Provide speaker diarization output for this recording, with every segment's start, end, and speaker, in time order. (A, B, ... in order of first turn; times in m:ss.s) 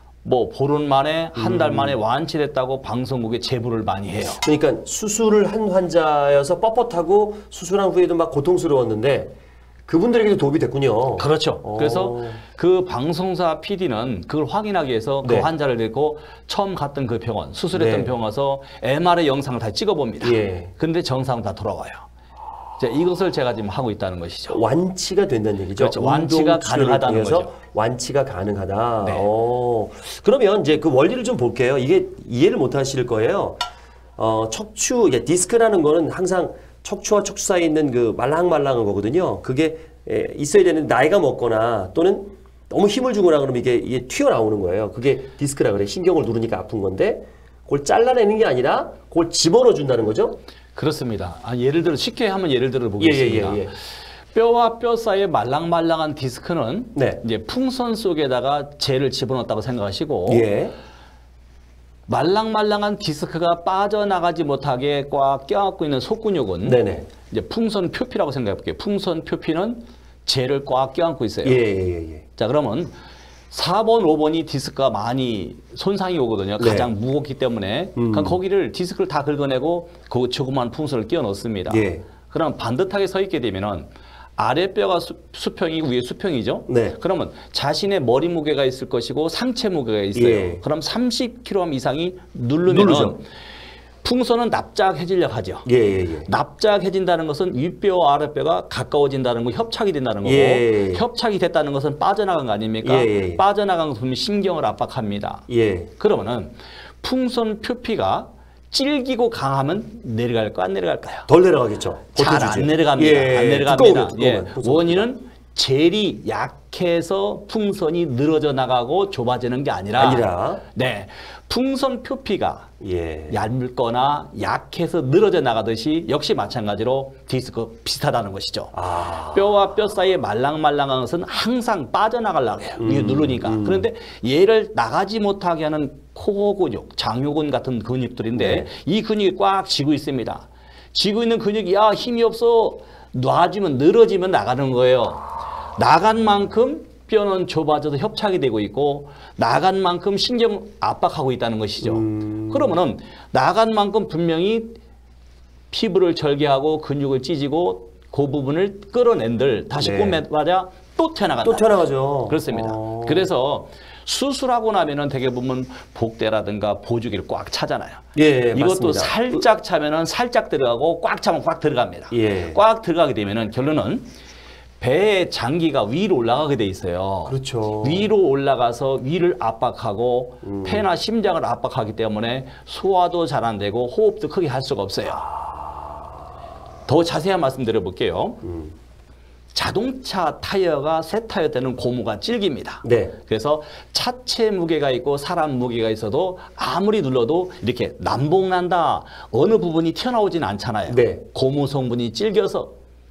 0:00.2-0:04.4 A
0:01.4-0:02.0 B
0:04.4-0:09.3 B
0:09.9-0:12.4 B
0:11.2-0:22.1 A
0:15.2-0:15.5 B
0:17.7-0:18.1 B
0:20.2-0:20.7 B
0:22.8-0:24.6 A
0:24.5-0:33.6 B
0:25.8-0:27.5 A
0:29.0-0:29.3 A
0:34.2-0:50.4 B
0:50.8-0:53.8 A
0:53.0-0:53.7 B
0:54.3-1:00.5 A
0:57.0-0:57.2 B
1:00.3-1:00.8 B
1:02.1-1:11.6 A
1:06.6-1:07.1 B
1:11.4-1:12.2 B
1:12.4-1:12.9 A
1:13.5-1:33.3 A
1:16.6-1:16.9 B
1:18.0-1:18.4 B
1:21.7-1:22.0 B
1:26.7-1:27.0 B
1:30.1-1:30.6 B
1:32.7-1:33.2 B
1:34.0-1:35.7 A
1:35.7-1:36.3 B
1:36.2-1:45.5 A
1:40.2-1:41.0 B
1:42.8-1:43.4 B
1:45.5-1:45.9 B
1:46.0-1:51.3 A
1:51.3-1:55.1 B
1:52.2-2:02.7 A
2:00.0-2:00.6 B
2:02.8-2:03.4 B
2:03.3-2:08.7 A
2:08.7-2:09.5 B
2:09.3-2:34.8 A
2:12.8-2:13.9 B
2:18.4-2:18.7 B
2:31.8-2:32.8 B
2:35.7-2:41.7 A
2:39.8-2:40.2 B
2:41.4-2:43.3 B
2:42.3-2:54.1 A
2:48.2-2:49.4 B
2:52.1-2:52.6 B
2:54.8-3:05.3 A
2:57.2-2:58.1 B
3:00.4-3:00.9 B
3:05.3-3:06.0 B
3:06.9-3:08.4 A
3:08.4-3:08.7 B
3:09.5-3:22.7 A
3:12.8-3:13.1 B
3:20.9-3:21.2 B